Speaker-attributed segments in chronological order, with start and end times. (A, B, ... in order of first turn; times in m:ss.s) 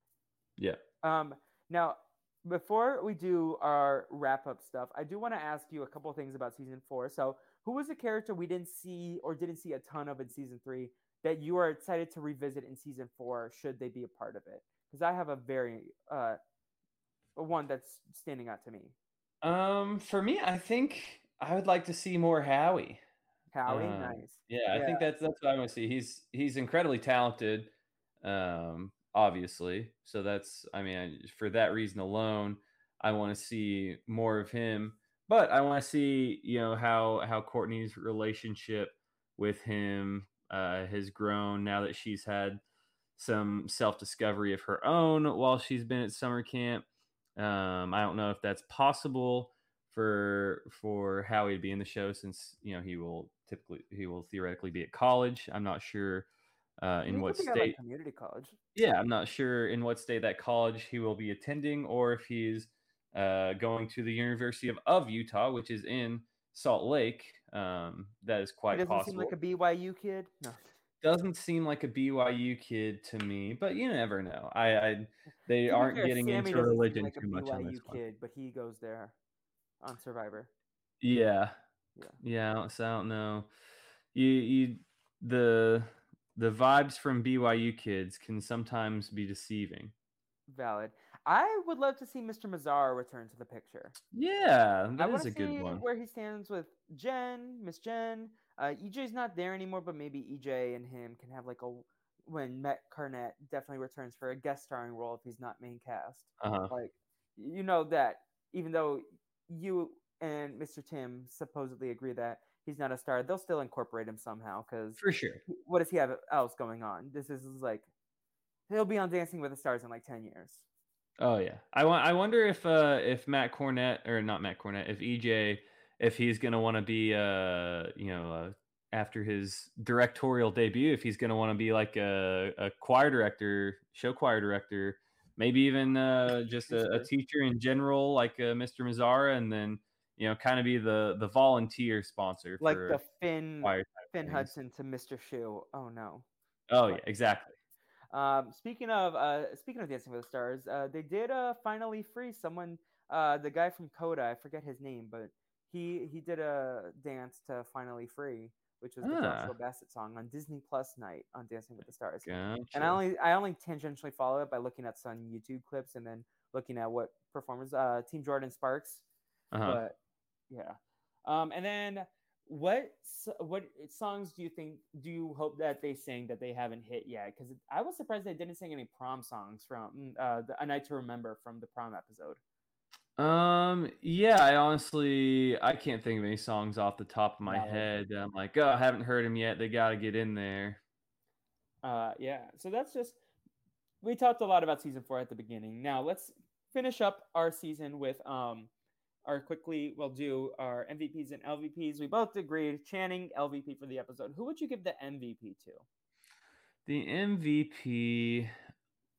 0:01.0-0:16.4 A
0:17.4-0:19.0 A
0:19.4-0:23.0 B
0:23.5-0:25.1 A
0:23.7-0:42.6 B
0:43.2-0:46.8 B
0:47.4-0:56.3 B
0:56.8-0:57.8 B
0:57.1-0:58.6 A
0:58.8-1:09.3 B
1:08.7-1:10.7 A
1:11.0-1:18.0 B
1:15.7-1:19.2 A
1:19.8-1:20.5 A
1:21.0-1:21.6 B
1:22.2-1:23.5 B
1:24.1-1:29.9 B
1:30.5-1:34.0 A
1:34.1-1:35.8 B
1:35.0-1:57.9 A
1:46.4-1:46.7 B
1:55.0-1:55.4 B
1:58.7-2:00.6 A
2:01.2-2:23.0 B
2:16.4-2:17.1 A
2:22.6-2:26.3 A
2:23.6-2:24.5 B
2:26.7-2:27.5 B
2:28.1-2:49.0 A
2:39.0-2:39.5 B
2:42.2-2:43.0 B
2:49.5-2:49.8 B
2:49.6-2:50.0 A
2:50.5-3:02.4 A
3:03.2-3:10.8 B
3:07.5-3:07.9 A
3:11.8-3:13.2 A
3:14.0-3:18.7 A
3:19.3-3:25.8 A
3:26.9-3:28.5 B